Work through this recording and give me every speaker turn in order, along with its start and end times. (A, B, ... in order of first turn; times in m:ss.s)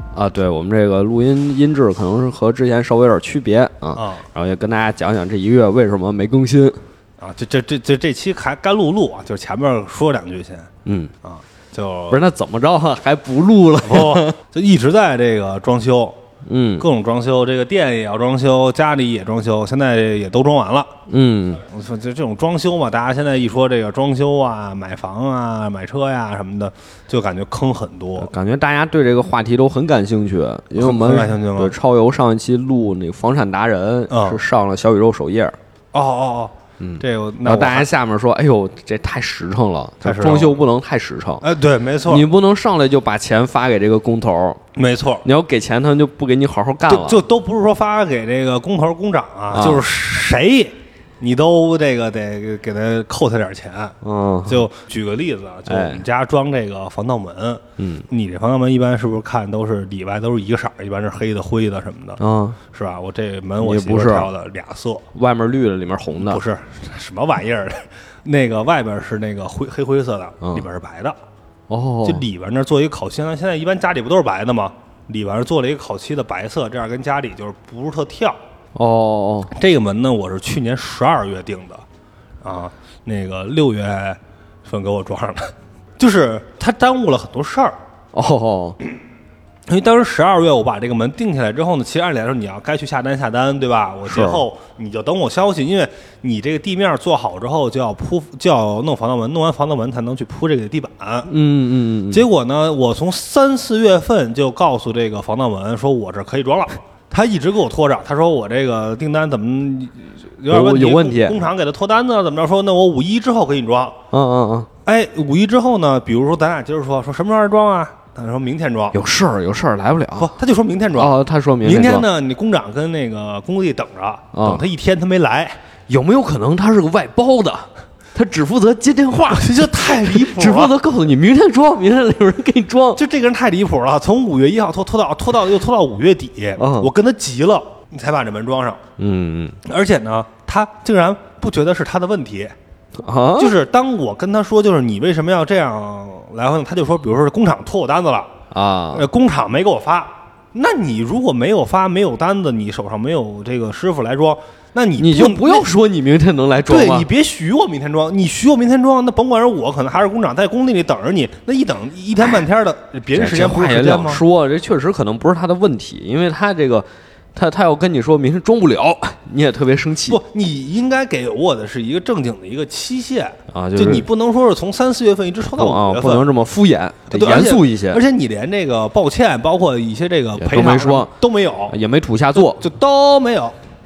0:00.1-0:06.8 A
0:04.0-0:04.2 B
0:07.2-0:10.7 B
0:10.8-0:11.1 A
0:11.2-0:12.2 B
0:12.1-0:14.4 A
0:13.8-0:16.2 B
0:16.5-0:16.9 A
0:16.8-0:20.9 B
0:21.1-0:21.6 A
0:21.6-0:28.3 B
0:28.2-0:35.6 A
0:30.8-0:31.8 B
0:34.1-0:34.4 B
0:35.9-0:37.9 B
0:36.8-0:41.5 A
0:40.0-0:40.6 B
0:41.4-0:42.3 B
0:42.0-0:44.6 A
0:44.7-0:45.2 B
0:45.2-0:47.2 A
0:46.9-1:05.0 B
0:49.5-0:49.8 A
0:54.0-0:54.7 A
0:55.7-0:56.0 A
0:57.8-0:58.1 A
1:02.2-1:02.6 A
1:03.6-1:04.3 A
1:05.1-1:06.4 A
1:06.2-1:11.2 B
1:10.4-1:10.7 A
1:11.7-1:12.2 A
1:12.0-1:18.4 B
1:18.8-1:19.5 A
1:19.5-1:21.8 B
1:22.4-1:27.8 B
1:28.1-1:28.8 A
1:29.7-1:41.3 B
1:34.1-1:34.4 A
1:41.3-1:42.2 A
1:42.1-1:54.0 B
1:50.5-1:51.4 A
1:54.1-1:54.7 A
1:54.8-1:59.0 B
1:58.9-2:00.3 A
2:00.2-2:05.6 B
2:01.0-2:02.1 A
2:04.3-2:04.6 A
2:05.9-2:13.0 A
2:09.3-2:10.8 B
2:13.0-2:18.8 B
2:16.6-2:16.9 A
2:19.0-2:19.6 A
2:19.6-2:22.6 B
2:23.0-2:23.6 A
2:23.4-2:28.3 B
2:28.5-2:29.1 A
2:28.9-2:35.7 B
2:35.0-2:37.1 A
2:36.6-2:44.2 B
2:43.1-2:50.2 A
2:50.1-2:56.3 B
2:53.5-2:54.1 A
2:55.6-2:58.0 A
2:57.1-3:01.8 B
3:00.4-3:01.1 A
3:01.7-3:02.7 A
3:02.4-3:03.6 B